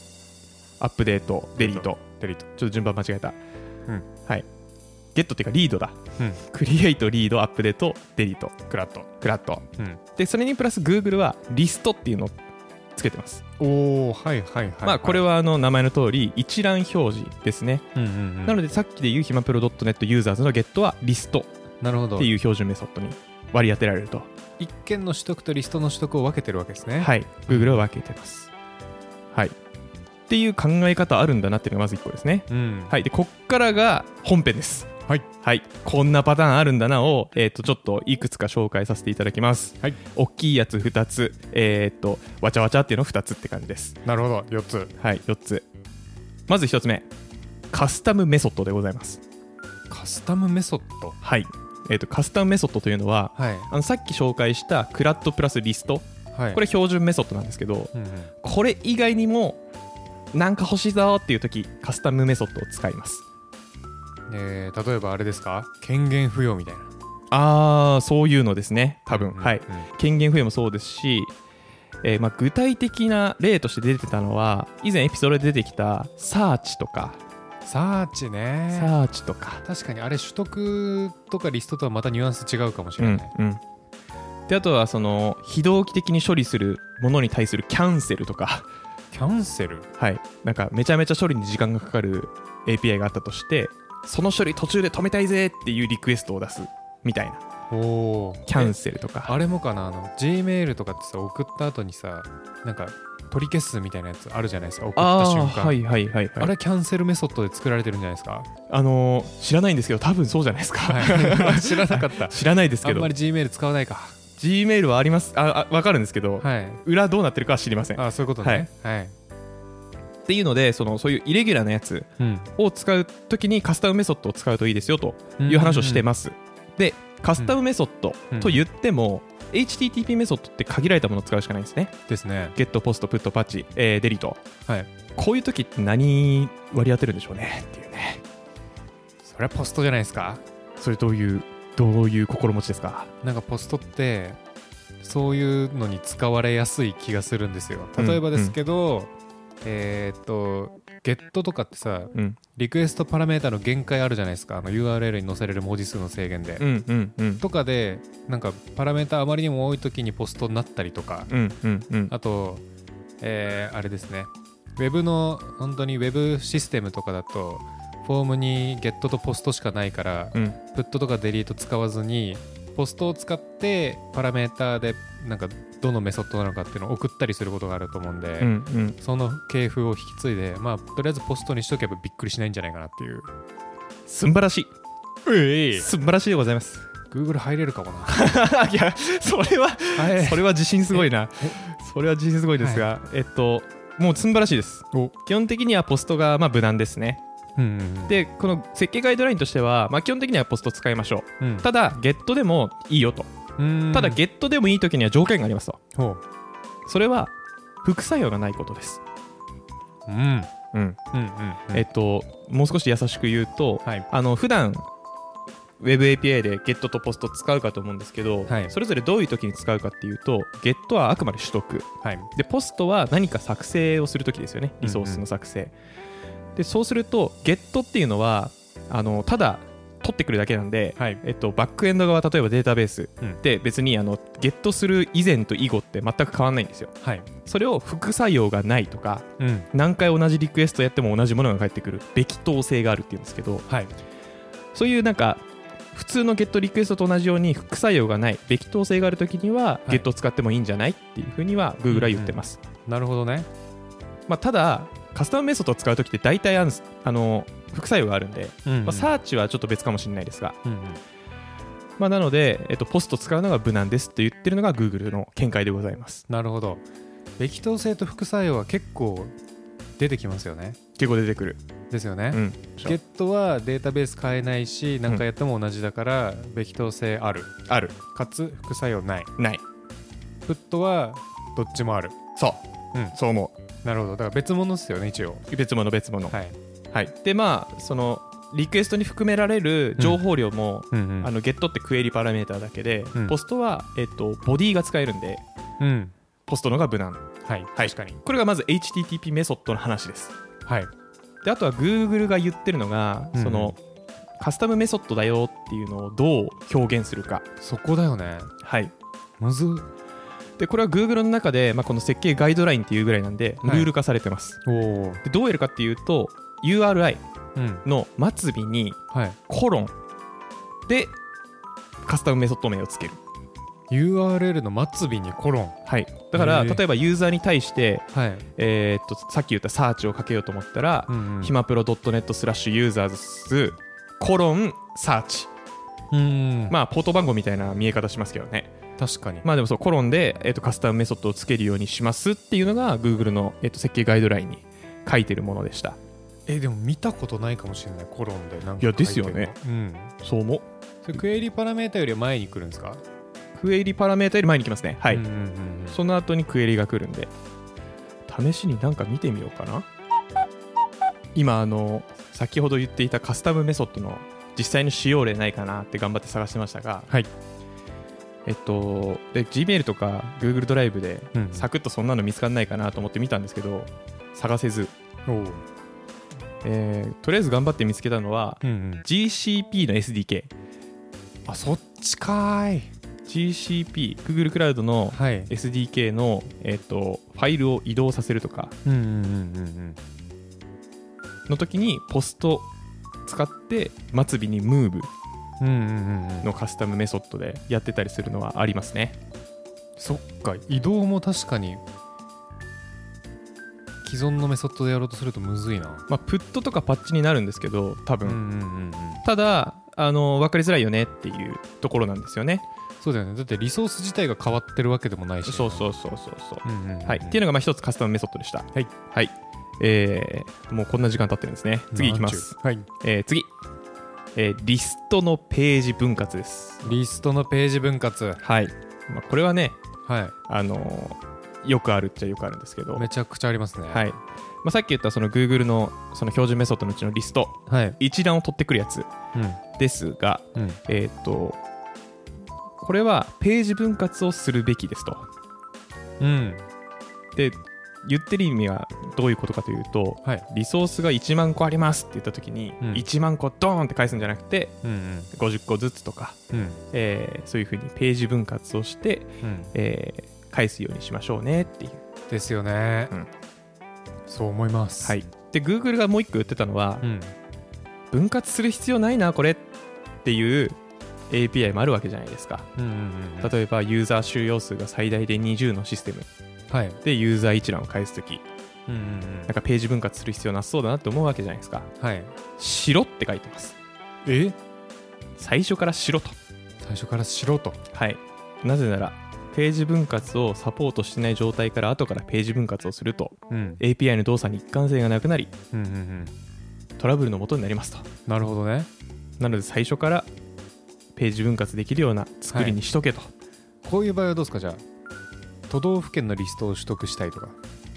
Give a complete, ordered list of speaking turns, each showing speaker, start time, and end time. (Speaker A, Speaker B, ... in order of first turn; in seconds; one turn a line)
Speaker A: 0.8-2.0
Speaker B: 1.6-2.5
Speaker A: 2.5-3.4
Speaker A: 5.2-8.6
Speaker B: 8.7-9.1
Speaker A: 9.2-12.3
Speaker A: 13.0-13.4
Speaker B: 13.6-15.2
Speaker A: 14.8-17.9
Speaker B: 17.9-18.6
Speaker A: 18.4-21.5
Speaker B: 21.8-22.3
Speaker A: 22.2-24.3
Speaker B: 24.6-27.9
Speaker A: 27.0-28.5
Speaker A: 30.3-44.0
Speaker B: 32.5-32.9
Speaker B: 44.0-44.9
Speaker A: 45.0-45.7
Speaker A: 46.5-47.1
Speaker A: 47.7-49.2
Speaker B: 49.9-51.2
Speaker A: 51.2-59.6
Speaker B: 53.4-53.7
Speaker B: 56.3-56.6
Speaker B: 57.9-58.3
Speaker A: 60.3-63.2
Speaker B: 64.3-66.9
Speaker A: 67.3-71.3
Speaker B: 69.1-69.9
Speaker A: 72.0-77.2
Speaker B: 77.7-79.0
Speaker A: 78.7-79.6
Speaker B: 79.7-83.3
Speaker A: 83.0-83.6
Speaker A: 84.5-88.7
Speaker B: 89.1-89.9
Speaker A: 90.0-97.4
Speaker B: 97.7-105.8
Speaker A: 98.5-99.3
Speaker A: 105.0-106.5
Speaker B: 106.4-108.5
Speaker A: 108.7-113.1
Speaker B: 110.9-114.2
Speaker A: 114.4-118.7
Speaker B: 116.4-116.8
Speaker B: 118.0-119.2
Speaker A: 120.3-131.9
Speaker B: 122.2-122.5
Speaker B: 125.4-126.1
Speaker B: 128.3-128.6
Speaker B: 132.1-132.6
Speaker A: 132.6-134.4
Speaker A: 135.2-138.2
Speaker B: 139.2-140.4
Speaker A: 140.8-143.1
Speaker B: 143.2-144.4
Speaker B: 145.0-149.1
Speaker A: 148.0-148.6
Speaker B: 149.6-156.7
Speaker A: 156.6-157.4
Speaker B: 157.4-161.3
Speaker A: 161.3-162.1
Speaker B: 162.1-162.6
Speaker B: 163.2-183.3
Speaker A: 178.4-179.0
Speaker A: 184.1-184.7
Speaker B: 185.2-185.9
Speaker A: 185.7-186.9
Speaker B: 187.1-188.3
Speaker A: 188.1-197.2
Speaker B: 189.9-191.6
Speaker B: 192.6-192.9
Speaker B: 197.6-198.2
Speaker A: 198.1-203.3
Speaker B: 201.4-201.7
Speaker B: 203.6-204.2
Speaker A: 203.9-205.8
Speaker B: 205.9-206.2
Speaker A: 206.9-207.3
Speaker A: 207.8-209.0
Speaker B: 210.1-210.5
Speaker A: 210.7-211.0
Speaker B: 211.1-211.8
Speaker A: 211.7-214.9
Speaker A: 215.8-225.7
Speaker B: 218.5-218.7
Speaker B: 222.0-222.3
Speaker B: 224.8-225.3
Speaker A: 226.6-236.9
Speaker B: 231.0-231.2
Speaker B: 237.0-237.3
Speaker A: 237.4-243.7
Speaker B: 239.4-239.7
Speaker B: 243.7-243.9
Speaker A: 244.8-252.6
Speaker B: 251.9-253.5
Speaker A: 254.3-260.6
Speaker B: 258.7-259.1
Speaker B: 260.6-261.0
Speaker A: 262.0-266.2
Speaker B: 266.3-266.8
Speaker B: 267.4-269.3
Speaker B: 270.0-270.8
Speaker A: 271.0-271.6
Speaker B: 271.9-277.6
Speaker A: 272.3-273.0
Speaker A: 277.7-278.0
Speaker B: 278.1-279.3
Speaker B: 280.4-282.2
Speaker A: 282.4-283.6
Speaker B: 283.8-285.5
Speaker A: 285.5-286.4
Speaker B: 286.3-286.6
Speaker A: 286.9-295.4
Speaker B: 290.9-291.3
Speaker B: 295.8-296.1
Speaker A: 296.5-300.4
Speaker B: 297.4-298.2
Speaker B: 300.7-300.9
Speaker A: 301.4-303.8
Speaker B: 303.3-303.8
Speaker A: 304.4-307.4
Speaker B: 307.6-308.5
Speaker A: 308.6-308.9
Speaker B: 309.4-309.9
Speaker A: 310.6-314.6
Speaker B: 313.6-313.9
Speaker B: 314.6-315.2
Speaker A: 315.2-317.2
Speaker B: 317.6-317.8
Speaker A: 317.9-319.9
Speaker B: 319.1-319.4
Speaker A: 320.9-321.2
Speaker A: 322.1-323.2
Speaker B: 323.9-325.8
Speaker A: 325.9-335.5
Speaker B: 326.3-326.8
Speaker B: 328.1-328.5
Speaker B: 331.1-331.6
Speaker B: 336.1-336.8
Speaker A: 336.7-338.7
Speaker B: 339.0-339.5
Speaker A: 339.4-346.0
Speaker B: 346.5-350.1
Speaker A: 348.8-349.5
Speaker A: 350.2-350.6
Speaker B: 351.0-353.0
Speaker A: 353.6-355.2
Speaker B: 355.1-356.0
Speaker A: 355.9-357.3
Speaker A: 358.3-359.9
Speaker A: 361.4-367.1
Speaker A: 368.5-374.9
Speaker B: 371.3-371.7
Speaker B: 375.3-375.6
Speaker A: 376.6-380.5
Speaker B: 378.6-379.1
Speaker B: 381.5-382.9
Speaker A: 383.3-388.8
Speaker B: 385.1-385.5
Speaker B: 388.9-390.0
Speaker A: 391.5-392.7
Speaker A: 393.2-395.1
Speaker B: 395.6-396.5
Speaker A: 396.4-399.2
Speaker B: 400.0-401.8
Speaker B: 404.0-406.1
Speaker A: 406.1-408.4
Speaker B: 408.2-409.2
Speaker A: 409.2-412.6
Speaker B: 413.0-415.9
Speaker A: 415.4-423.5
Speaker B: 416.6-417.4
Speaker B: 421.9-422.9
Speaker A: 424.4-427.0
Speaker B: 426.8-428.4
Speaker A: 428.4-429.8
Speaker B: 430.1-430.4
Speaker A: 430.5-433.1
Speaker B: 433.0-434.1
Speaker A: 433.9-439.1
Speaker B: 437.7-438.0
Speaker B: 439.3-439.6
Speaker A: 439.8-441.6
Speaker A: 442.8-445.3
Speaker B: 446.2-446.7
Speaker A: 447.4-454.8
Speaker B: 452.8-453.1
Speaker B: 454.8-455.3
Speaker A: 455.3-456.4
Speaker B: 456.5-456.8
Speaker A: 456.9-462.0
Speaker B: 459.4-459.7
Speaker B: 462.3-463.1
Speaker B: 464.3-465.2
Speaker A: 465.0-467.1
Speaker B: 467.0-467.4
Speaker A: 468.1-469.6
Speaker A: 470.2-470.8
Speaker A: 471.3-472.7
Speaker B: 472.8-473.5
Speaker A: 473.4-476.3
Speaker B: 476.7-477.0
Speaker A: 477.0-478.4
Speaker B: 478.9-479.5
Speaker A: 479.5-481.9
Speaker B: 482.0-482.3
Speaker A: 482.6-483.8
Speaker B: 484.2-484.6
Speaker A: 485.4-486.4
Speaker B: 486.8-487.8
Speaker A: 487.9-495.5
Speaker B: 493.5-493.8
Speaker B: 495.7-496.3
Speaker A: 497.0-498.1
Speaker B: 498.3-498.9
Speaker A: 499.4-500.3
Speaker A: 501.2-503.3
Speaker B: 502.5-502.8
Speaker B: 503.8-504.8
Speaker B: 505.7-507.6